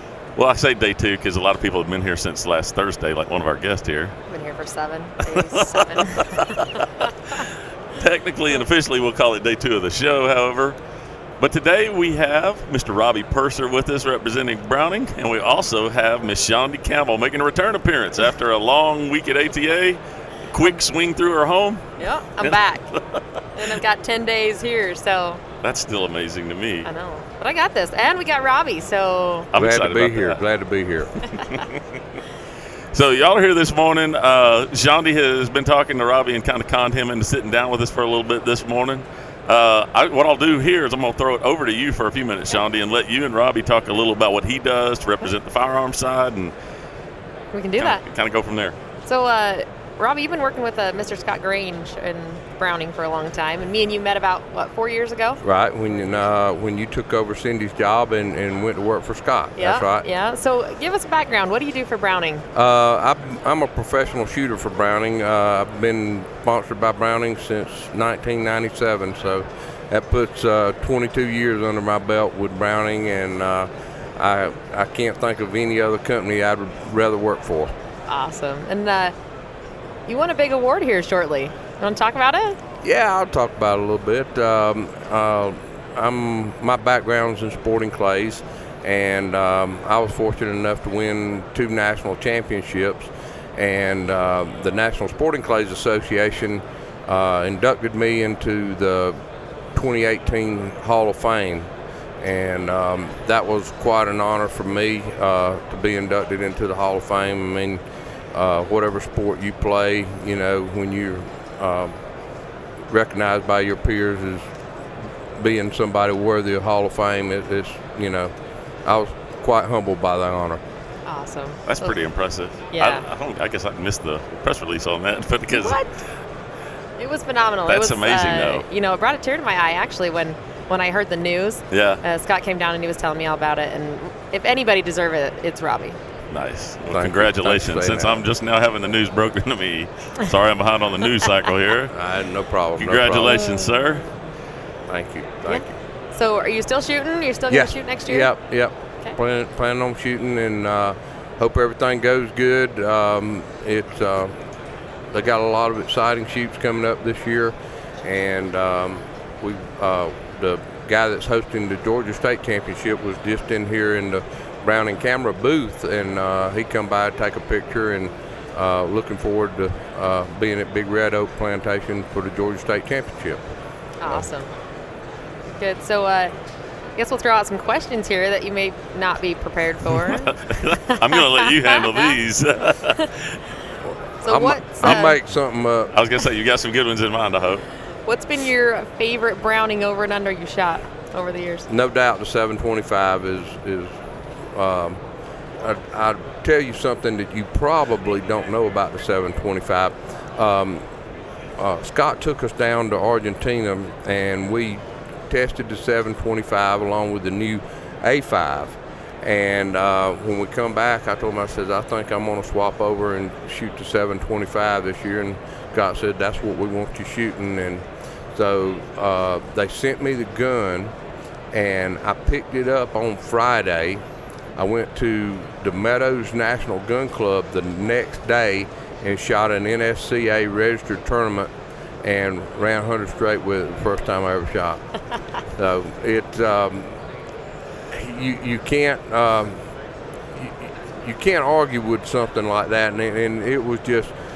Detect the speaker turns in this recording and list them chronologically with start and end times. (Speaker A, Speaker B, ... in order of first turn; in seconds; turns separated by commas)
Speaker A: 0.3-4.2, Speaker B: 4.3-6.8, Speaker A: 5.2-10.8, Speaker A: 11.4-21.9, Speaker B: 22.0-22.9, Speaker B: 23.6-25.4, Speaker A: 25.6-26.9, Speaker B: 26.8-29.5, Speaker A: 29.5-30.4, Speaker C: 29.5-31.1, Speaker A: 31.3-31.8, Speaker A: 32.9-46.5, Speaker B: 47.5-48.0, Speaker A: 47.8-48.8, Speaker B: 49.0-55.4, Speaker C: 55.4-60.0, Speaker B: 59.6-62.4, Speaker C: 62.5-77.7, Speaker B: 78.1-79.1, Speaker B: 80.1-82.6, Speaker C: 82.8-99.2, Speaker C: 99.7-101.7, Speaker C: 102.2-107.8, Speaker C: 108.3-112.0, Speaker C: 112.9-114.5, Speaker C: 115.4-118.3, Speaker C: 118.8-120.6, Speaker B: 121.0-121.9, Speaker A: 121.7-125.8, Speaker B: 122.7-123.0, Speaker B: 125.5-125.9, Speaker B: 127.0-136.0, Speaker A: 127.7-128.6, Speaker A: 131.7-132.0, Speaker A: 136.3-141.9, Speaker C: 136.8-138.2, Speaker C: 141.9-143.4, Speaker A: 142.8-144.0, Speaker B: 143.3-144.2, Speaker C: 144.9-145.8, Speaker B: 145.4-148.3, Speaker C: 147.5-154.3, Speaker C: 155.1-173.4, Speaker B: 174.0-174.5, Speaker B: 175.6-176.3, Speaker B: 177.0-182.1, Speaker A: 179.9-183.4, Speaker B: 184.2-185.2, Speaker C: 184.2-185.9, Speaker A: 184.8-185.1, Speaker A: 185.9-187.7, Speaker B: 188.1-191.7, Speaker C: 191.7-194.0, Speaker C: 194.5-195.0, Speaker C: 195.6-200.8, Speaker C: 201.6-220.9, Speaker C: 221.5-224.0, Speaker C: 224.6-231.5, Speaker C: 232.0-234.8, Speaker C: 235.5-237.0, Speaker C: 237.9-239.6, Speaker C: 240.3-244.1